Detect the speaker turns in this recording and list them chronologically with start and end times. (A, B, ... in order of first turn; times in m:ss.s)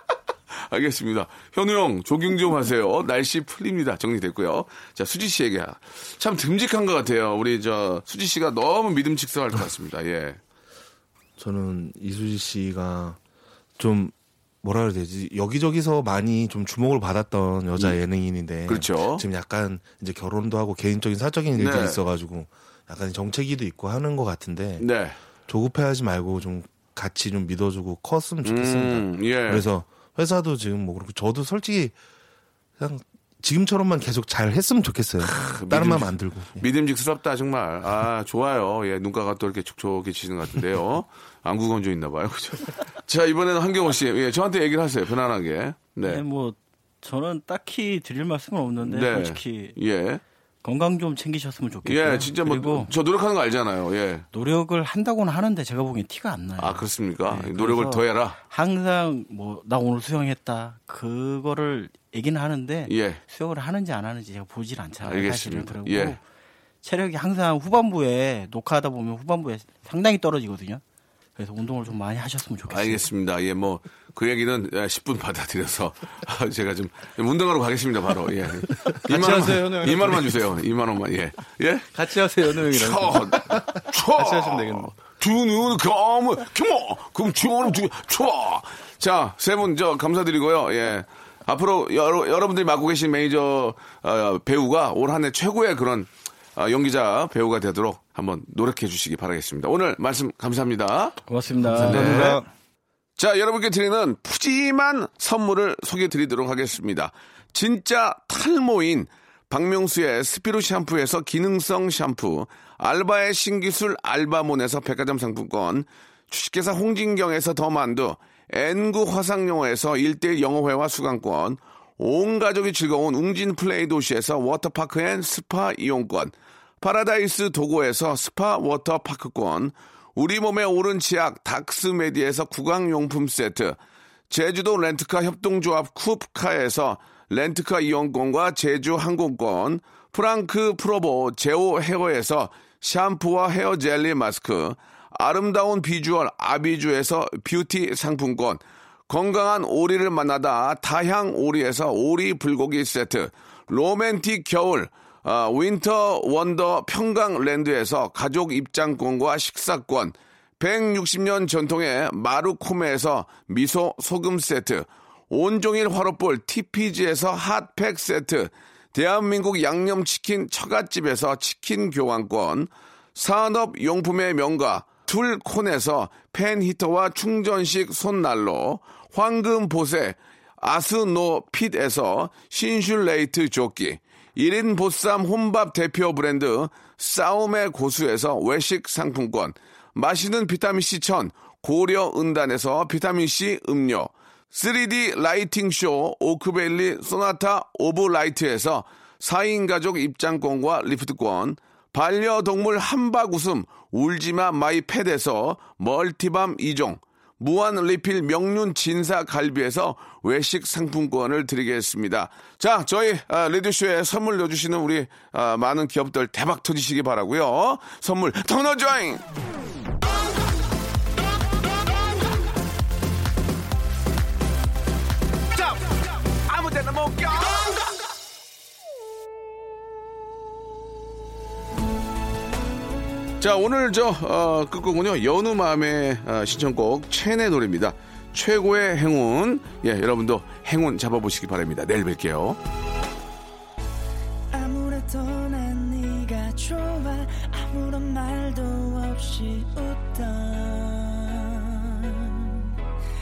0:00.6-0:10.4 A
0:11.4-0:13.2 B
0:13.8-0:24.9 B
0:18.7-0:19.2 A
0:21.6-0:22.0 A
0:24.8-0:25.2 A
0:25.5-0:32.0 B
0:28.4-0:29.7 A
0:32.8-0:36.7 B
0:35.2-0:46.2 A
0:46.0-0:49.8 C
0:48.8-0:50.2 A
0:50.6-0:52.9 C
0:51.8-0:54.2 A
0:54.3-1:06.2 C
0:56.6-0:58.4 A
1:02.9-1:03.2 A
1:05.0-1:06.2 A
1:06.8-1:10.8 C
1:11.4-1:13.0 C
1:12.7-1:22.0 A
1:18.9-1:20.4 D
1:21.9-1:25.0 D
1:22.6-1:41.2 A
1:41.3-1:42.4 C
1:41.6-1:42.5 D
1:41.8-1:42.4 A
1:43.2-2:13.8 A
2:14.3-3:39.2 A
3:46.5-3:47.7 A
3:53.4-4:02.6 A
4:04.5-4:12.7 E